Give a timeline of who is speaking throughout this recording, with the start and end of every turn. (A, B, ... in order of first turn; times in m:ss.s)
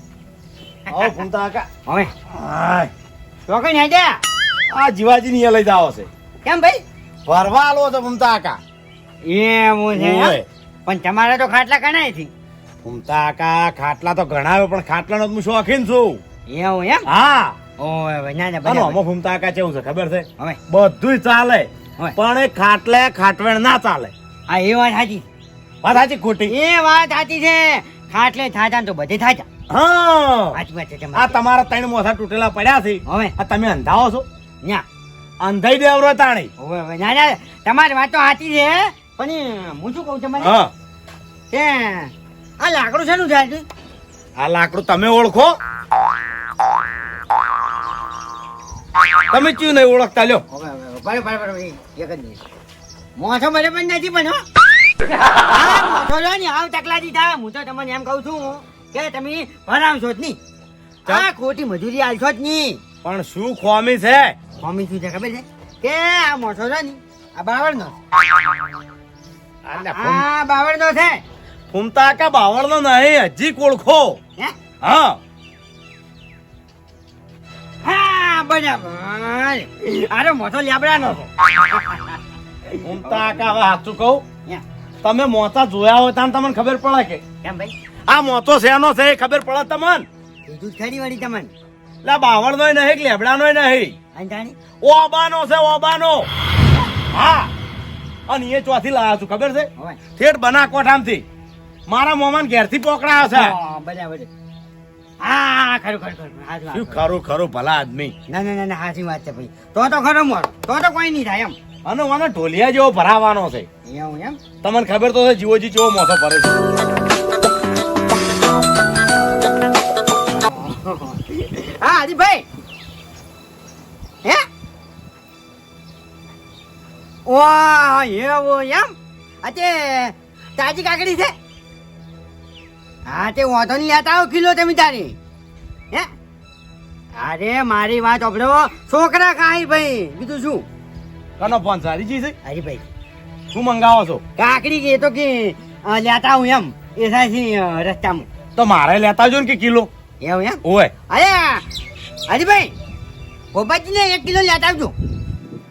0:00.9-0:01.2 A
0:00.9-0:01.7 B
0:01.8-0:02.1 A
0:02.3-0:02.9 B
0:03.5-0:04.2 A
0:04.7-0:06.1 B
0:06.4-0:06.8 A
0:07.2-0:08.6 B
0:09.2-0:12.3 A
0:09.9-0:10.4 B
0:12.8-0:16.2 B
0:16.5-0:17.1 A
0:17.1-0:17.6 B
0:17.8-0:19.0 A
0:18.6-0:24.1 B
0:24.5-0:25.2 A
0:25.8-0:26.5 B
0:26.5-0:29.4 A
0:29.7-0:30.6 B
0:30.5-0:31.4 A
0:31.1-0:34.2 B
0:33.1-0:33.3 A
0:35.4-0:36.5 B
0:36.6-0:40.6 A
0:40.4-0:40.7 B
0:41.5-0:43.6 A
0:44.4-0:45.6 B
0:49.3-0:50.4 B
0:50.5-0:52.4 A
0:53.2-0:54.4 A
0:55.4-1:00.4 A
1:01.0-1:02.8 A
1:03.0-1:04.4 B
1:04.6-1:08.0 A
1:09.6-1:10.2 B
1:09.7-1:11.2 A
1:11.7-1:14.2 B
1:14.8-1:15.2 B
1:17.8-1:22.2 A
1:22.8-1:24.2 B
1:23.0-1:23.4 A
1:25.0-1:27.2 B
1:27.4-1:27.7 A
1:28.1-1:30.1 B
1:30.4-1:31.5 A
1:32.0-1:34.0 B
1:34.1-1:34.5 A
1:34.8-1:36.3 B
1:37.1-1:37.5 B
1:38.3-1:41.2 B
1:41.9-1:43.5 B
1:43.2-1:44.3 A
1:45.2-1:47.0 A
1:46.7-1:48.1 B
1:48.3-1:51.6 A
1:51.8-1:53.7 B
1:53.8-1:54.4 A
1:54.6-1:56.5 B
2:00.5-2:02.4 A
2:07.2-2:08.9 A
2:09.4-2:11.3 A
2:13.1-2:15.2 A
2:17.2-2:20.6 A
2:21.4-2:22.3 B
2:22.4-2:22.9 A
2:23.5-2:24.2 B
2:24.4-2:28.3 A
2:28.6-2:29.9 B
2:30.2-2:31.6 A
2:30.6-2:30.9 B
2:32.3-2:32.7 A
2:33.5-2:34.9 A